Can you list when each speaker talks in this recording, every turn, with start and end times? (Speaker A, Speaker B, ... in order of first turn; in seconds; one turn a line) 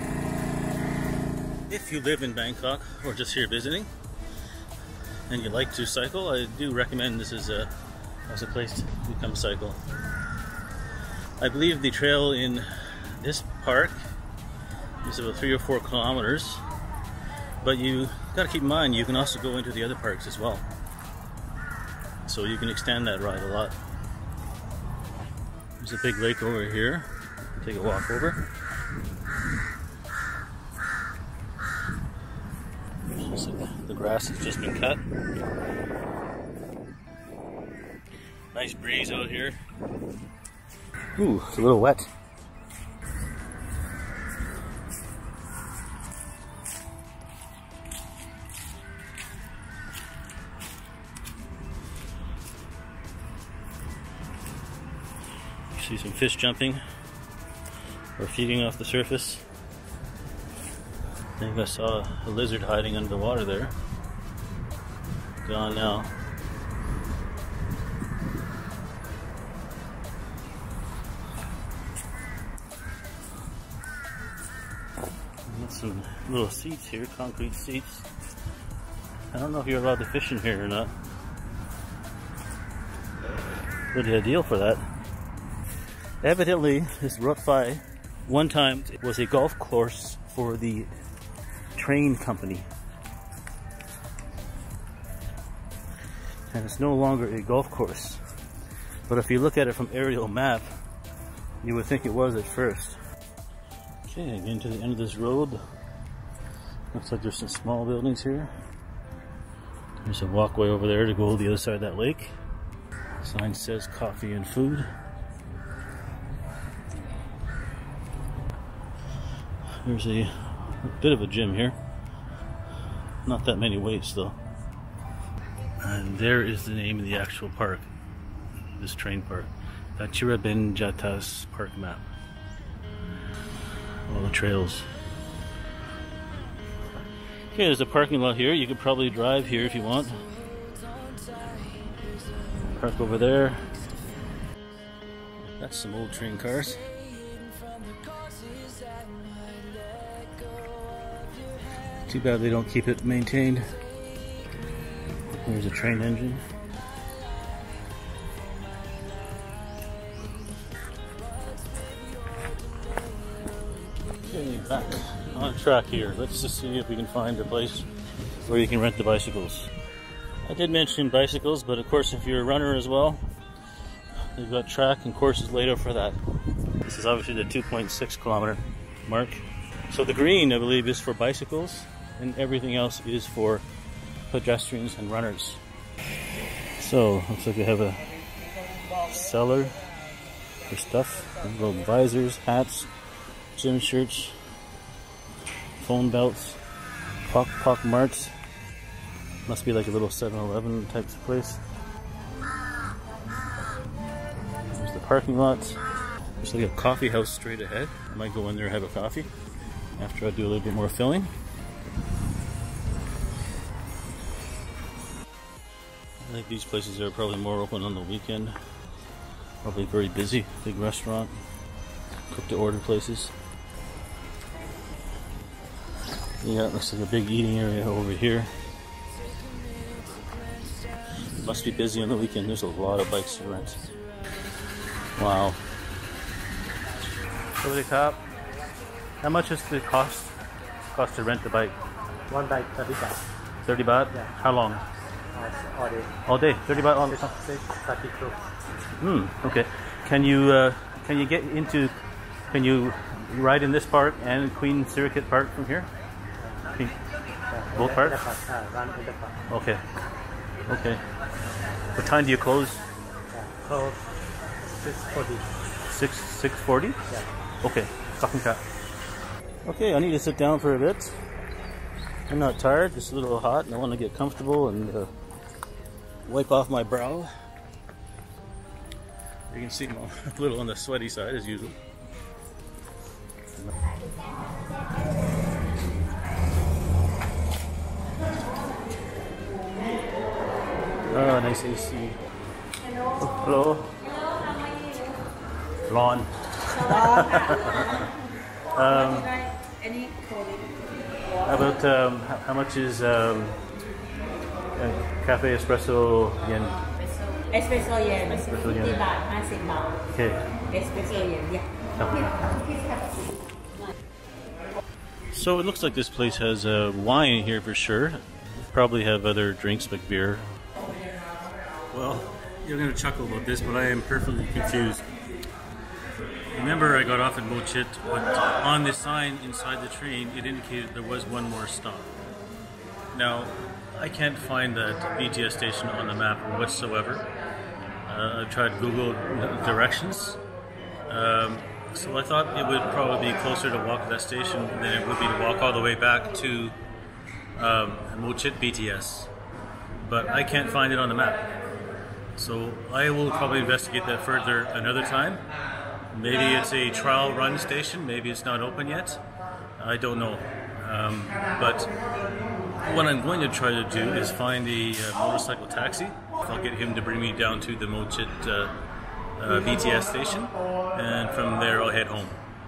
Speaker A: 1.7-3.9
Speaker A: 5.3-7.7
Speaker A: 8.3-9.8
Speaker A: 11.4-12.7
Speaker A: 13.2-14.0
Speaker A: 15.0-16.6
Speaker A: 17.6-20.6
Speaker A: 22.2-23.8
Speaker A: 25.8-28.4
Speaker A: 33.1-35.0
Speaker A: 38.5-39.6
Speaker A: 41.2-42.1
Speaker A: 55.7-56.8
Speaker A: 58.2-59.4
Speaker A: 61.4-63.7
Speaker A: 65.4-66.1
Speaker A: 75.5-78.0
Speaker A: 79.3-80.9
Speaker A: 83.9-84.9
Speaker A: 86.2-90.9
Speaker A: 91.8-92.7
Speaker A: 96.5-98.2
Speaker A: 99.1-100.7
Speaker A: 101.6-103.0
Speaker A: 104.1-105.6
Speaker A: 106.9-108.5
Speaker A: 110.0-112.3
Speaker A: 113.2-114.9
Speaker A: 119.8-121.8
Speaker A: 123.2-124.3
Speaker A: 125.8-127.9
Speaker A: 128.8-132.1
Speaker A: 134.1-134.9
Speaker A: 137.5-140.2
Speaker A: 142.7-143.7
Speaker A: 145.6-146.8
Speaker A: 152.1-153.7
Speaker A: 155.3-156.4
Speaker A: 164.2-167.9
Speaker A: 168.4-169.7
Speaker A: 170.4-173.2
Speaker A: 174.3-176.2
Speaker A: 176.8-183.6
Speaker A: 184.3-185.6
Speaker A: 186.8-188.1
Speaker A: 189.0-189.8
Speaker A: 190.7-192.9
Speaker A: 193.6-194.4
Speaker A: 195.8-196.6
Speaker A: 197.2-198.3
Speaker A: 199.5-201.6
Speaker A: 204.7-205.8
Speaker A: 206.4-209.3
Speaker A: 210.0-211.3
Speaker A: 216.2-218.6
Speaker A: 219.6-221.4
Speaker A: 222.3-223.3
Speaker A: 226.4-228.5
Speaker A: 231.4-233.8
Speaker A: 235.2-235.6
Speaker A: 237.6-238.2
Speaker A: 239.2-240.3
Speaker A: 240.9-241.8
Speaker B: 242.3-243.2
Speaker A: 243.6-244.8
Speaker B: 245.3-246.1
Speaker A: 246.2-247.3
Speaker B: 247.1-248.4
Speaker A: 249.0-251.9
Speaker A: 252.5-255.9
Speaker B: 256.4-256.6
Speaker B: 257.5-259.4
Speaker A: 257.7-258.2
Speaker A: 259.5-259.8
Speaker A: 260.7-261.0
Speaker A: 261.9-262.8
Speaker B: 263.3-264.0
Speaker B: 264.7-265.4
Speaker A: 265.9-267.0
Speaker A: 267.6-268.6
Speaker A: 269.6-271.2
Speaker A: 272.3-275.1
Speaker A: 276.2-277.3
Speaker A: 279.5-281.8
Speaker A: 291.1-292.2
Speaker A: 293.2-294.0
Speaker A: 295.9-298.0
Speaker C: 297.1-297.5
Speaker A: 298.7-299.4
Speaker C: 299.9-300.2
Speaker A: 301.4-303.6
Speaker A: 304.7-306.8
Speaker C: 307.5-310.0
Speaker A: 308.4-309.1
Speaker A: 310.1-310.5
Speaker C: 310.7-311.6
Speaker A: 312.0-312.4
Speaker A: 315.3-320.5
Speaker A: 321.9-325.0
Speaker A: 326.5-332.1
Speaker A: 333.1-337.2
Speaker A: 338.1-340.4
Speaker A: 341.1-346.8
Speaker A: 347.6-349.3
Speaker A: 350.0-351.4
Speaker A: 352.3-355.4
Speaker A: 356.1-359.2
Speaker A: 359.8-361.9
Speaker A: 362.8-368.7
Speaker A: 369.4-372.4